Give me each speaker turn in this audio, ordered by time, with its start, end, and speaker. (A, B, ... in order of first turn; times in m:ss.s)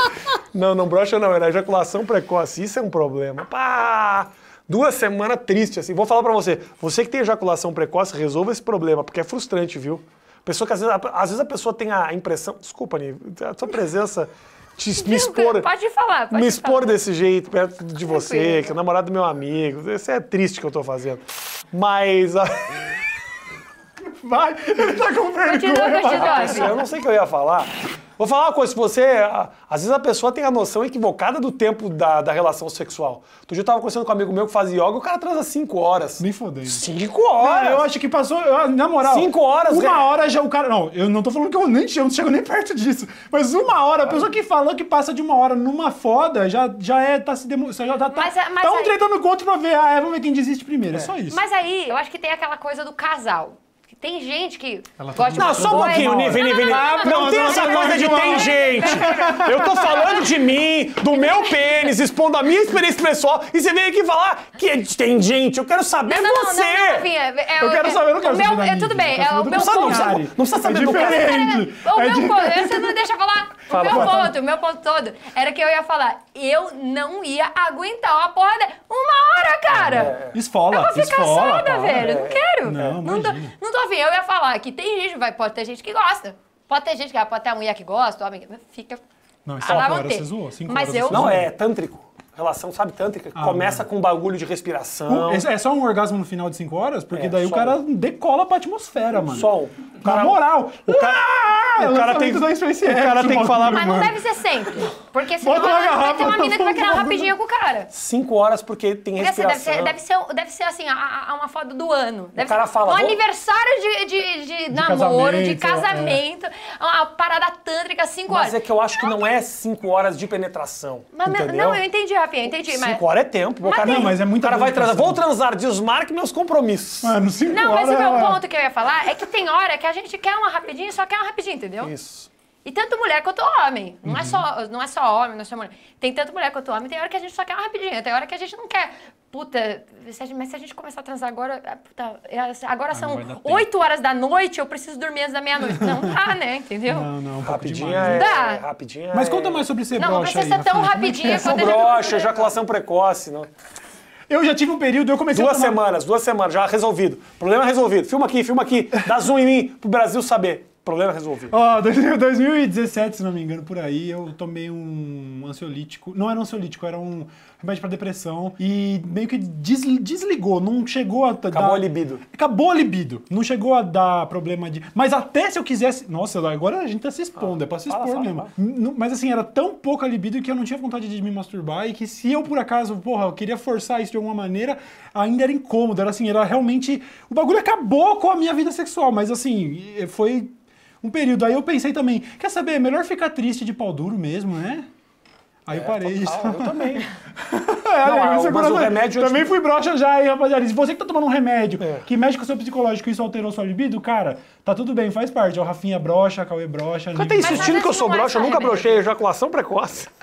0:00.2-0:15.7 A
0:14.9-0:17.0 B
0:16.3-0:22.8 A
0:18.0-0:18.8 B
0:24.2-0:26.8 C
0:25.4-0:26.8 B
0:26.2-0:37.9 A
0:36.2-0:36.8 C
0:37.4-0:51.4 C
0:39.0-0:40.1 A
0:48.1-0:49.0 B
0:51.3-1:00.4 B
0:55.0-1:00.0 C
0:55.4-1:07.1 A
1:01.1-1:01.9 B
1:06.0-1:10.2 B
1:07.6-1:13.0 C
1:09.5-1:11.4 A
1:10.8-1:20.2 B
1:13.7-1:14.3 A
1:13.9-1:14.4 C
1:19.8-1:20.4 A
1:20.2-1:23.5 C
1:20.7-1:29.0 B
1:21.9-1:22.9 A
1:29.4-1:31.5 C
1:29.6-1:31.4 B
1:31.1-1:35.5 A
1:33.4-1:33.8 C
1:35.1-1:44.9 C
1:37.1-1:37.8 A
1:39.3-1:44.0 A
1:43.7-1:47.9 B
1:45.4-1:47.3 C
1:47.9-1:50.0 A
1:49.2-1:59.1 B
1:52.4-1:53.2 A
1:54.7-1:56.2 C
1:58.3-2:01.8 A
2:01.1-2:03.0 B
2:02.6-2:07.2 A
2:03.6-2:04.2 B
2:03.8-2:05.2 C
2:07.0-2:08.4 C
2:07.5-2:11.9 B
2:11.8-2:12.3 A
2:12.6-2:27.1 B
2:14.0-2:14.4 C
2:22.9-2:23.7 C
2:25.7-2:26.1 C
2:26.9-2:28.3 C
2:27.4-2:29.7 A
2:28.0-2:28.6 B
2:29.1-2:31.5 C
2:30.0-2:32.4 B
2:31.2-2:33.5 A
2:34.3-2:35.9 C
2:35.3-2:41.5 A
2:41.5-3:14.9 C
2:51.5-2:52.2 A
2:57.4-2:58.5 A
3:15.7-3:27.8 C
3:15.7-3:17.1 A
3:18.0-3:19.5 A
3:21.8-3:22.0 A
3:27.1-3:30.1 A
3:27.4-3:29.0 B